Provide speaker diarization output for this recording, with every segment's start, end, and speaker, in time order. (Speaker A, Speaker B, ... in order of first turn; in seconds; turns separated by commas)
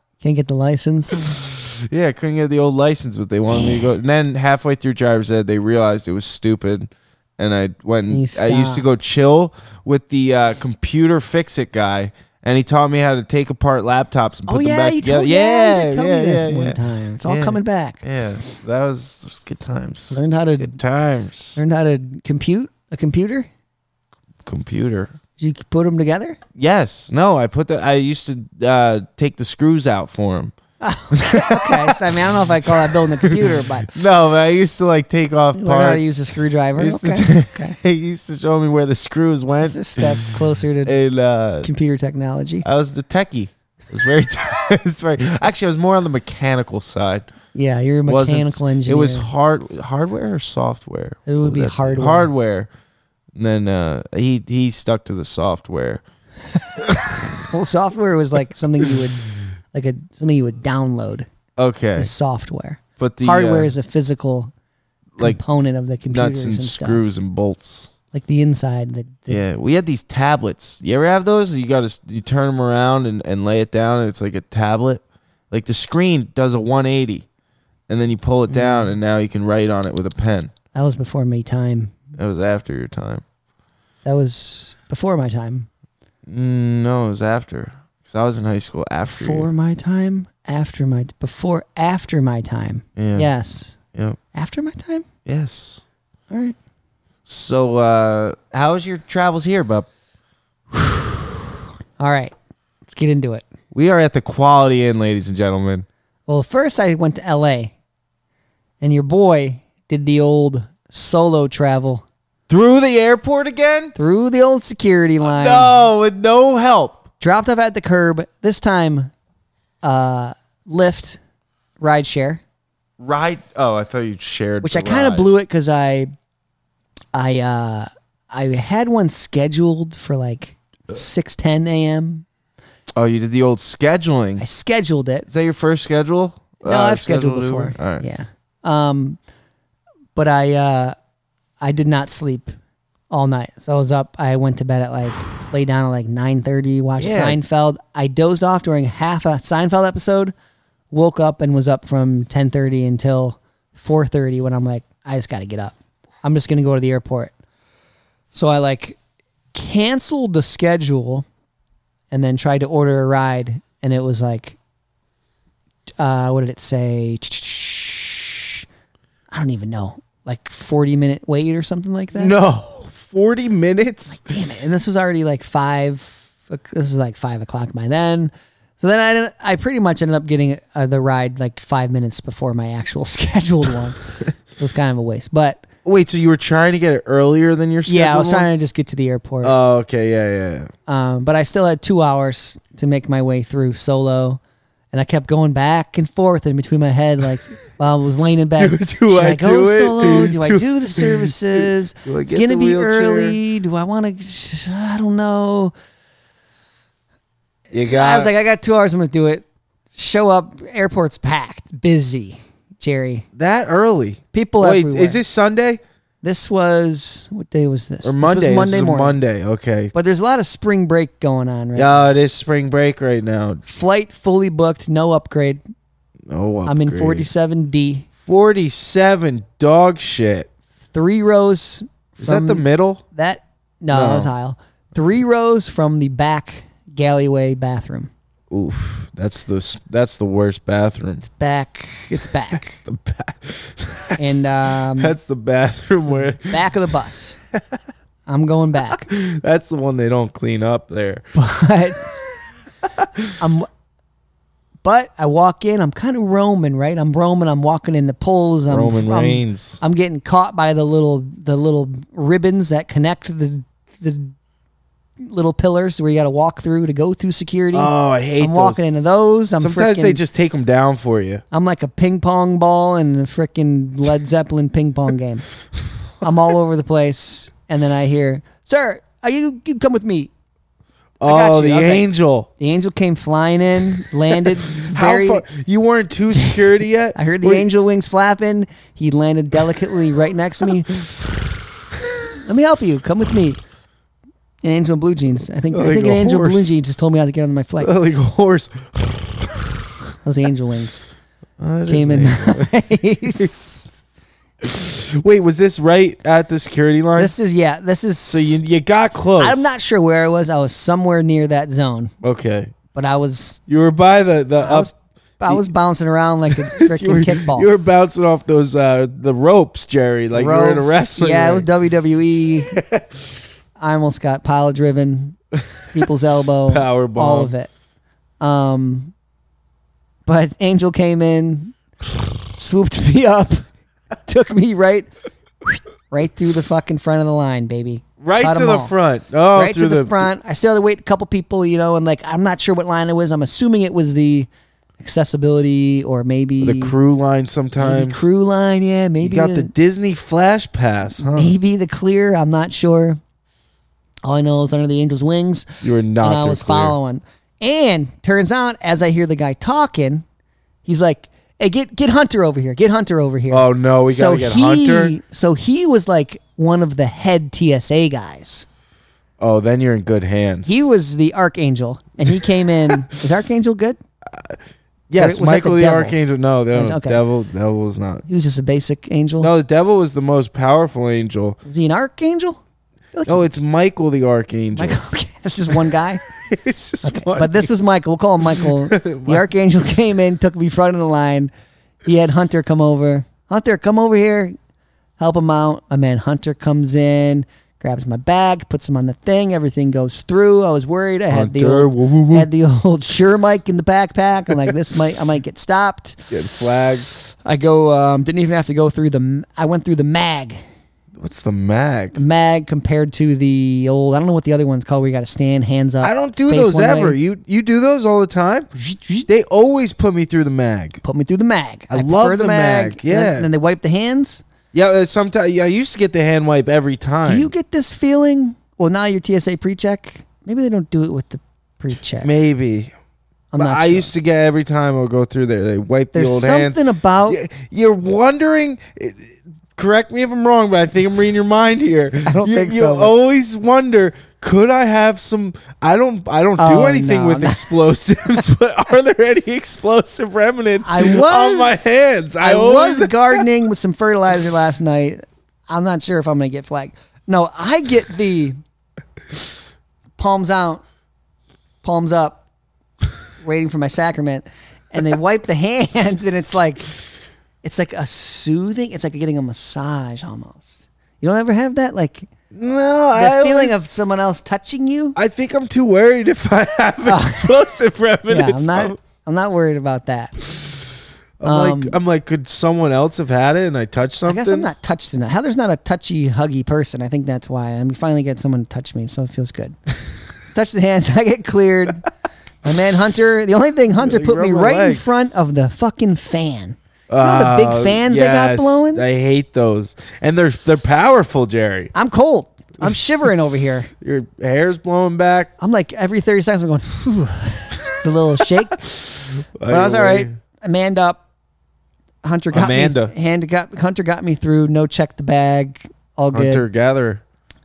Speaker A: 0.2-1.3, Speaker B: 1.3-21.6, Speaker A: 3.5-3.8, Speaker A: 8.1-8.8, Speaker A: 14.5-18.0, Speaker A: 20.1-20.8, Speaker A: 21.6-23.5, Speaker B: 24.4-25.1, Speaker A: 25.4-26.4, Speaker B: 26.6-30.5, Speaker A: 30.8-34.0, Speaker B: 31.1-36.2, Speaker A: 35.5-37.8, Speaker B: 36.8-41.7, Speaker A: 39.6-41.0, Speaker A: 41.6-42.6, Speaker B: 42.6-47.3, Speaker A: 47.5-49.3, Speaker B: 48.0-52.7, Speaker A: 51.3-52.3, Speaker B: 53.3-56.0, Speaker A: 57.4-61.3, Speaker B: 61.6-62.1, Speaker A: 62.0-64.5, Speaker B: 63.0-63.7, Speaker A: 65.2-67.0, Speaker B: 66.1-67.9, Speaker A: 68.1-69.4, Speaker B: 69.3-77.2, Speaker B: 77.9-80.5, Speaker A: 78.5-78.9, Speaker A: 80.7-81.9, Speaker B: 82.2-83.2, Speaker A: 84.0-85.7, Speaker B: 86.3-89.5, Speaker A: 89.1-93.8, Speaker B: 93.0-93.3, Speaker A: 94.3-95.1, Speaker B: 95.2-95.8, Speaker A: 96.3-96.5, Speaker B: 97.2-99.9, Speaker A: 102.0-102.3, Speaker A: 102.8-103.4, Speaker B: 103.7-105.8, Speaker A: 106.3-107.7, Speaker A: 108.8-112.0, Speaker B: 112.5-113.9, Speaker A: 114.0-115.8, Speaker B: 115.2-117.0, Speaker A: 117.2-119.1, Speaker A: 119.8-121.2, Speaker A: 121.8-122.4, Speaker B: 123.0-125.3, Speaker A: 124.6-126.1, Speaker A: 127.1-132.2, Speaker B: 132.9-134.4, Speaker A: 134.4-135.3, Speaker B: 135.3-138.1, Speaker A: 136.6-139.2, Speaker A: 140.1-140.9, Speaker A: 141.6-142.5, Speaker A: 143.1-150.3, Speaker B: 147.0-147.4, Speaker A: 150.9-157.3, Speaker A: 158.3-159.0, Speaker A: 159.5-161.2, Speaker A: 162.1-164.6, Speaker A: 166.0-168.6, Speaker A: 169.3-172.3, Speaker B: 172.1-174.2, Speaker A: 174.1-184.0, Speaker A: 184.6-185.6, Speaker B: 185.8-188.5, Speaker A: 187.9-189.6, Speaker B: 189.4-190.7, Speaker A: 190.9-194.4, Speaker A: 194.9-205.7, Speaker B: 198.6-203.4, Speaker B: 207.7-208.3, Speaker A: 207.7-213.2, Speaker B: 213.3-215.8, Speaker A: 214.3-215.2, Speaker A: 216.2-219.2, Speaker B: 218.0-219.9, Speaker A: 219.9-222.1, Speaker B: 221.8-223.6, Speaker A: 223.7-225.6, Speaker B: 226.3-227.3, Speaker A: 226.7-228.1, Speaker B: 228.2-230.5, Speaker A: 230.9-238.1, Speaker B: 232.2-233.0, Speaker B: 233.9-234.3, Speaker B: 238.5-241.2, Speaker A: 241.2-242.8, Speaker B: 242.5-246.6, Speaker A: 244.2-245.2, Speaker A: 246.0-247.4, Speaker A: 248.3-249.1, Speaker B: 248.9-251.2, Speaker A: 251.3-252.1, Speaker B: 253.0-253.3, Speaker A: 253.4-253.7, Speaker A: 254.8-264.3, Speaker B: 258.7-259.8, Speaker A: 265.2-270.2, Speaker B: 267.7-268.9, Speaker B: 269.6-271.4, Speaker A: 271.5-275.4, Speaker A: 276.2-280.3, Speaker B: 281.2-282.5, Speaker A: 281.2-285.4, Speaker B: 284.6-287.7, Speaker A: 287.1-291.0, Speaker A: 292.4-293.6, Speaker A: 294.6-297.9, Speaker B: 295.7-296.8, Speaker B: 297.8-299.9, Speaker A: 300.2-301.0, Speaker B: 301.6-302.7, Speaker A: 301.9-303.8, Speaker B: 303.3-303.7, Speaker B: 304.6-307.3, Speaker A: 307.1-308.6, Speaker B: 308.3-309.6, Speaker A: 309.4-312.1, Speaker B: 312.2-312.7, Speaker A: 312.9-313.6, Speaker B: 313.7-314.9, Speaker A: 314.6-317.7, Speaker B: 316.5-321.7, Speaker A: 320.3-322.8, Speaker B: 322.7-323.2, Speaker A: 323.8-325.4, Speaker A: 325.9-327.7, Speaker B: 326.7-327.5, Speaker A: 328.4-329.1, Speaker A: 330.2-331.7, Speaker A: 332.5-333.7, Speaker A: 334.2-335.1, Speaker A: 335.7-338.9, Speaker B: 338.2-340.3, Speaker A: 339.5-344.5, Speaker A: 345.0-346.9, Speaker B: 346.6-348.2, Speaker A: 347.8-349.7, Speaker B: 349.2-351.5, Speaker A: 351.2-353.2, Speaker A: 354.2-360.2, Speaker B: 355.8-356.9, Speaker A: 360.8-368.6, Speaker B: 363.5-365.1, Speaker B: 369.4-370.8, Speaker A: 370.6-374.0, Speaker B: 372.3-373.0, Speaker B: 374.3-374.6, Speaker B: 375.1-378.2, Speaker A: 375.2-376.2, Speaker A: 376.7-377.2, Speaker A: 378.3-379.5, Speaker B: 379.4-381.6, Speaker A: 381.6-382.6, Speaker A: 383.1-383.5, Speaker B: 383.2-385.0, Speaker A: 384.7-386.2, Speaker B: 386.4-387.7, Speaker A: 387.0-391.5, Speaker B: 388.6-389.4, Speaker A: 392.0-394.6, Speaker A: 395.2-406.3, Speaker B: 401.3-402.5, Speaker B: 406.3-407.1, Speaker A: 407.3-410.6, Speaker B: 411.2-412.2, Speaker A: 412.1-417.2, Speaker B: 416.0-418.7, Speaker A: 418.7-419.3, Speaker B: 419.3-421.0, Speaker A: 421.0-424.4, Speaker B: 421.9-423.5, Speaker B: 424.7-427.5, Speaker A: 427.2-432.3, Speaker B: 432.2-432.9, Speaker A: 433.5-434.1, Speaker B: 433.6-453.4, Speaker A: 436.1-437.4, Speaker A: 442.2-443.1, Speaker A: 446.6-447.8, Speaker A: 450.8-458.6, Speaker A: 460.2-460.8, Speaker A: 461.8-462.4, Speaker A: 463.4-466.9, Speaker A: 467.6-472.3, Speaker B: 472.5-473.9, Speaker A: 473.1-475.1, Speaker B: 475.1-479.0, Speaker A: 477.0-477.6, Speaker A: 478.3-480.4, Speaker B: 481.4-484.7, Speaker A: 481.4-482.0, Speaker A: 484.3-489.8, Speaker A: 490.5-492.1, Speaker A: 492.6-499.0, Speaker B: 494.0-495.1, Speaker B: 497.1-501.9, Speaker A: 501.9-503.9, Speaker B: 504.0-505.5, Speaker A: 505.6-508.8, Speaker B: 508.8-510.3, Speaker A: 509.7-511.2, Speaker A: 512.2-516.6, Speaker B: 512.5-513.1, Speaker B: 516.3-517.2